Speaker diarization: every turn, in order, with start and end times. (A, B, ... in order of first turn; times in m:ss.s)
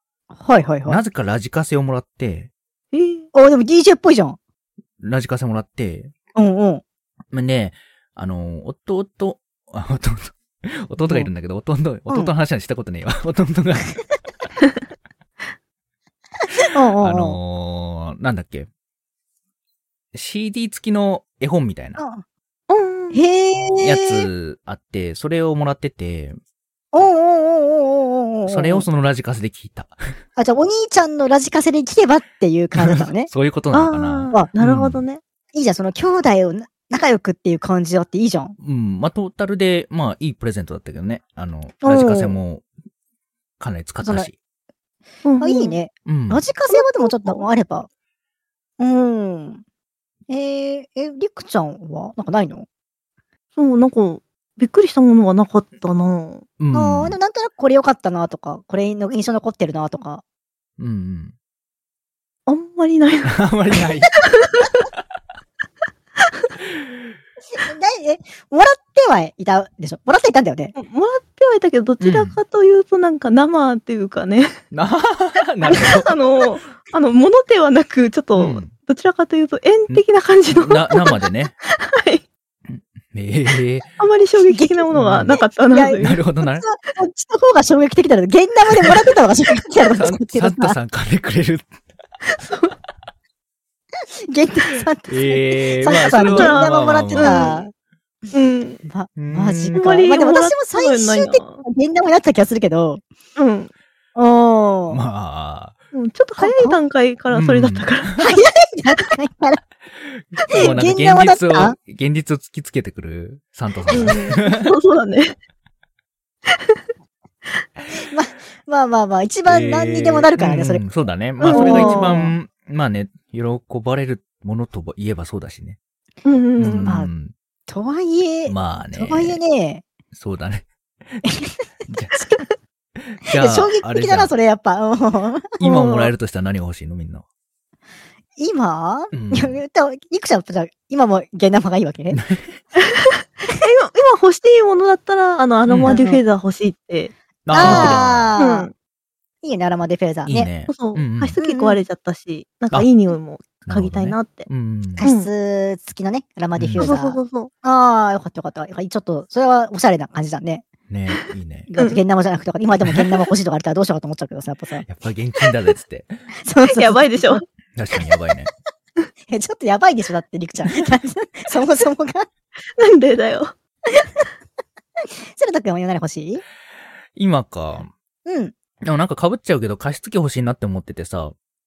0:00.3-0:01.0 A
0:00.9-0:02.5 B
0:02.9-0:03.3 C
0:03.3-0:04.4 A
0:05.0-0:06.1 B
0:06.4-0:06.8 A
0:07.3-0:14.0 B
0:16.7-0:17.4 A
0:17.0-0:18.7 B
0:20.1-0:22.0 B
0:22.0-0:22.2 A
0:22.7-0:23.2 C
0:23.1-0:24.3 A
0:23.8-0:26.4 B
0:26.9-0:28.9 A
0:28.5-0:30.0 B
0:30.4-0:33.3 A
0:32.8-0:35.0 B
0:33.7-0:35.2 C
0:35.5-0:38.6 A
0:38.6-0:42.6 B
0:41.8-0:42.4 A
0:43.6-0:44.4 B
0:44.0-0:44.3 A
0:45.2-0:45.8 C
0:45.4-0:47.9 A
0:46.1-0:46.4 B
0:46.7-0:47.4 C
0:48.8-0:49.6 A
0:50.3-0:52.7 A
0:53.6-0:56.5 C
0:56.6-0:57.2 B
0:56.7-1:00.2 A
1:00.8-1:01.3 B
1:02.5-1:04.9 C
1:03.3-1:04.2 B
1:06.2-1:06.5 C
1:07.6-1:10.8 A
1:10.8-1:14.6 C
1:12.0-1:12.4 B
1:14.7-1:16.1 B
1:15.6-1:22.2 C
1:18.4-1:18.7 B
1:20.5-1:21.5 B
1:22.7-1:23.9 B
1:24.0-1:26.2 C
1:24.5-1:30.8 A
1:24.9-1:25.4 B
1:26.0-1:26.6 B
1:29.9-1:31.7 B
1:32.3-1:32.8 C
1:34.3-1:37.7 A
1:35.1-1:37.6 B
1:36.0-1:37.6 C
1:38.3-1:38.8 C
1:38.8-1:43.0 A
1:39.2-1:40.0 B
1:39.8-1:41.6 C
1:43.4-1:43.7 C
1:44.2-1:45.0 A
1:44.9-1:45.8 B
1:45.9-1:48.2 C
1:46.4-1:46.8 A
1:47.3-1:48.2 B
1:48.2-1:49.6 A
1:50.0-1:54.7 B
1:50.6-1:51.8 A
1:53.9-1:55.4 C
1:56.5-1:56.8 C
1:58.0-2:00.8 A
1:59.5-2:05.8 B
2:01.4-2:02.2 C
2:01.4-2:02.3 A
2:06.2-2:06.9 C
2:06.6-2:07.3 B
2:06.6-2:07.1 A
2:07.7-2:09.8 A
2:08.5-2:09.4 B
2:10.1-2:11.2 B
2:11.2-2:11.5 A
2:11.9-2:12.2 B
2:13.1-2:14.3 B
2:13.3-2:15.6 A
2:15.6-2:17.2 B
2:15.6-2:16.1 C
2:18.4-2:22.2 A
2:19.1-2:19.6 B
2:22.1-2:22.5 B
2:22.8-2:28.7 C
2:25.7-2:26.0 B
2:25.9-2:26.2 A
2:27.5-2:28.4 B
2:27.5-2:28.7 A
2:29.4-2:30.5 A
2:30.3-2:31.4 B
2:30.7-2:34.5 C
2:31.4-2:31.8 A
2:33.7-2:35.0 B
2:35.0-2:40.6 A
2:35.0-2:35.3 C
2:36.6-2:36.9 B
2:36.8-2:37.5 C
2:40.9-2:41.7 B
2:41.7-2:44.8 A
2:44.8-2:46.2 B
2:46.4-2:47.4 A
2:46.7-2:47.4 C
2:47.8-2:48.5 B
2:49.3-2:52.3 A
2:52.7-2:53.5 C
2:55.3-2:56.4 A
2:57.2-2:57.9 B
2:58.3-2:58.6 A
2:58.8-3:01.3 B